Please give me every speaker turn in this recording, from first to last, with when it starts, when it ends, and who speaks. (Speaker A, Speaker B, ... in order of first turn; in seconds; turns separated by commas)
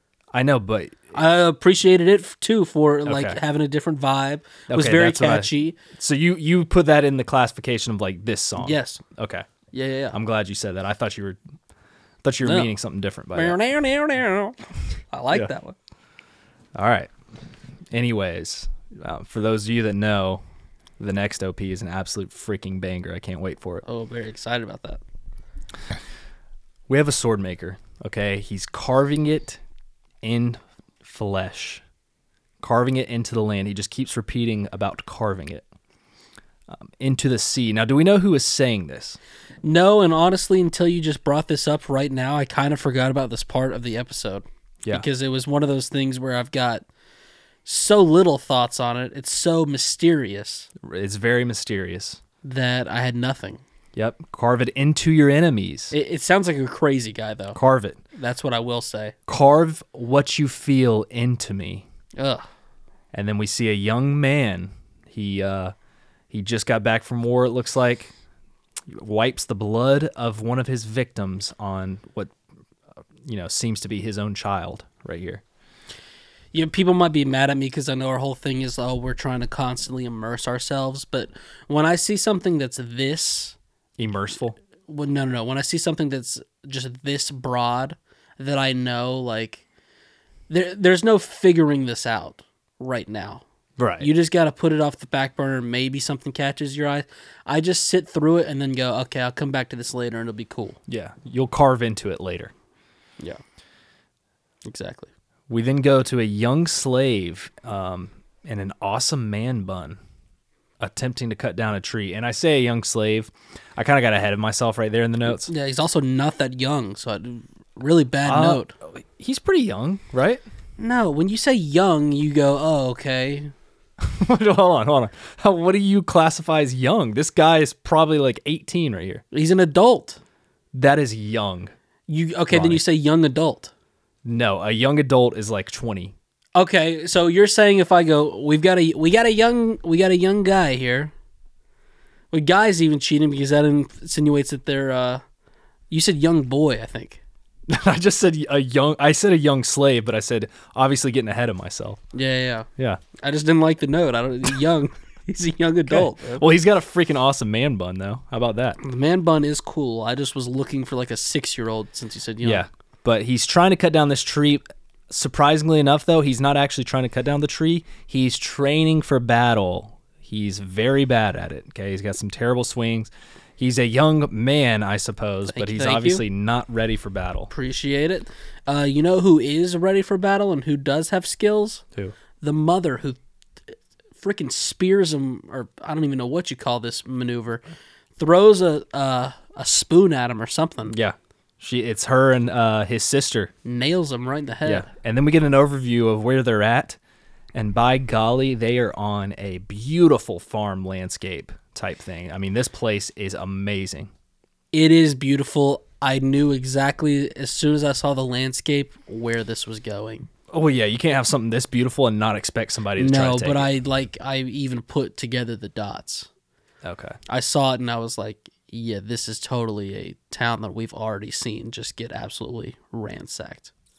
Speaker A: 0.3-1.1, Speaker B: 1.1-5.8, Speaker A: 3.1-3.4, Speaker A: 4.7-9.5, Speaker B: 8.6-9.0, Speaker B: 9.7-10.2, Speaker A: 10.1-11.4, Speaker A: 12.2-13.6, Speaker B: 12.4-12.7, Speaker B: 13.3-15.8, Speaker A: 16.8-17.1, Speaker A: 17.9-20.4, Speaker A: 21.0-23.8, Speaker B: 23.9-25.0, Speaker A: 26.9-29.6, Speaker A: 30.2-31.8, Speaker A: 32.6-35.7, Speaker A: 36.7-39.2, Speaker B: 39.6-46.9, Speaker B: 47.6-50.7, Speaker A: 50.8-52.2, Speaker B: 52.4-53.6, Speaker A: 54.0-55.9, Speaker B: 55.9-57.6, Speaker A: 57.5-58.0, Speaker B: 58.1-59.1, Speaker A: 59.3-61.9, Speaker B: 62.2-62.5, Speaker A: 63.1-65.7, Speaker A: 66.3-68.1, Speaker A: 68.9-72.3, Speaker A: 73.2-75.4, Speaker B: 76.5-83.6, Speaker A: 84.0-84.6, Speaker B: 84.9-89.7, Speaker B: 90.5-93.4, Speaker A: 93.8-94.1, Speaker B: 94.0-100.8, Speaker A: 100.9-102.5, Speaker B: 104.7-105.1, Speaker A: 105.5-110.0, Speaker A: 110.8-115.5, Speaker B: 115.3-118.7, Speaker A: 118.2-120.4, Speaker B: 120.8-123.5, Speaker A: 124.0-129.2, Speaker B: 129.3-130.2, Speaker A: 130.7-131.7, Speaker B: 132.1-133.7, Speaker A: 132.5-132.8, Speaker A: 134.2-136.2, Speaker B: 136.6-141.1, Speaker B: 142.3-145.2, Speaker B: 145.9-147.2, Speaker A: 147.7-152.0, Speaker B: 152.1-156.4, Speaker A: 155.9-158.8, Speaker B: 158.8-162.7, Speaker A: 162.4-177.5, Speaker B: 175.5-176.2, Speaker B: 177.5-181.8, Speaker B: 182.4-183.2, Speaker B: 184.2-187.6, Speaker B: 188.2-191.0, Speaker A: 190.9-193.5, Speaker B: 193.7-194.9, Speaker A: 194.7-197.0, Speaker A: 197.5-204.1, Speaker B: 204.7-210.3, Speaker A: 210.5-213.7, Speaker B: 213.0-216.3, Speaker A: 216.8-217.2, Speaker B: 217.3-223.7